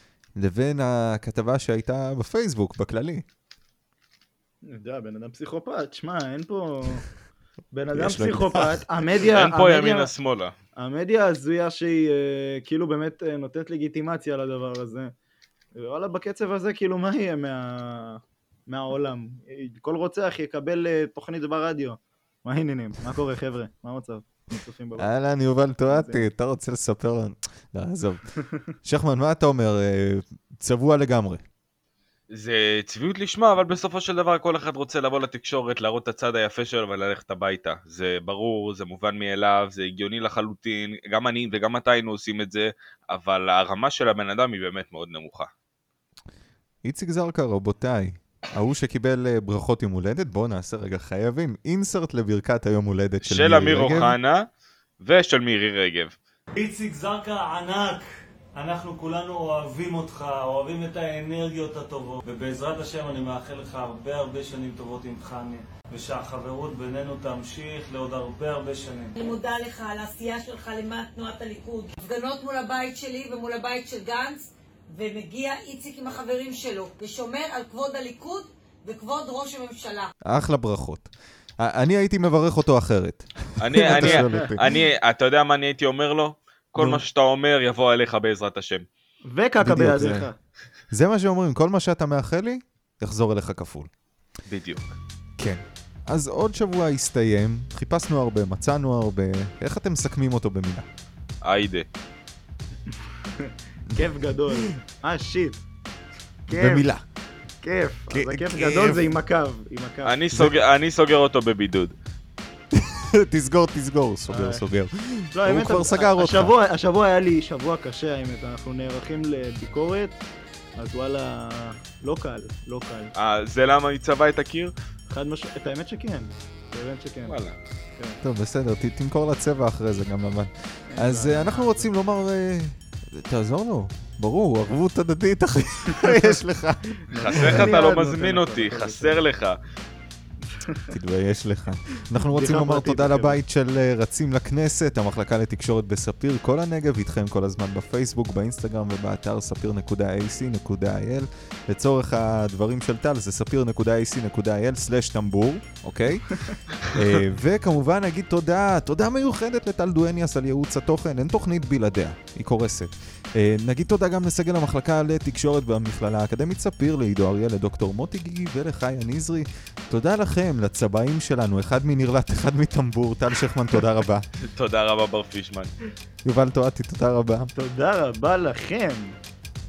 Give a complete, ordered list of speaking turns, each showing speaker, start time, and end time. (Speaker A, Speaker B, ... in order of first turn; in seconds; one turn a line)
Speaker A: 0.4-3.2
Speaker B: 4.6-7.0
Speaker B: 7.7-10.1
Speaker A: 7.9-8.8
Speaker C: 9.2-10.5
Speaker B: 10.8-15.1
Speaker B: 15.8-25.1
Speaker A: 25.0-28.3
Speaker B: 25.9-26.3
Speaker A: 28.8-31.4
Speaker C: 32.3-45.5
Speaker A: 46.8-54.1
Speaker C: 53.2-54.5
Speaker C: 55.0-56.1
Speaker D: 56.6-69.1
Speaker E: 69.1-80.1
Speaker A: 80.2-84.7
Speaker C: 83.6-88.8
Speaker B: 83.9-84.5
Speaker A: 86.8-87.0
Speaker B: 89.3-90.3
Speaker A: 89.6-90.3
Speaker A: 90.9-93.9
Speaker C: 94.5-95.0
Speaker A: 95.4-100.8
Speaker C: 101.4-101.8
Speaker B: 103.2-105.6
Speaker B: 106.5-106.9
Speaker A: 106.5-107.0
Speaker B: 107.6-110.1
Speaker A: 108.1-109.0
Speaker C: 110.0-111.9
Speaker A: 112.7-116.5
Speaker B: 114.3-114.6
Speaker B: 115.3-120.2
Speaker B: 120.8-123.1
Speaker C: 123.1-124.7
Speaker B: 125.1-127.4
Speaker C: 127.2-127.6
Speaker A: 128.2-137.7
Speaker B: 130.9-131.9
Speaker B: 137.1-139.2
Speaker C: 137.1-139.6
Speaker A: 140.9-174.2
Speaker B: 142.2-143.4
Speaker C: 174.4-175.7
Speaker A: 176.2-177.5
Speaker B: 177.6-179.2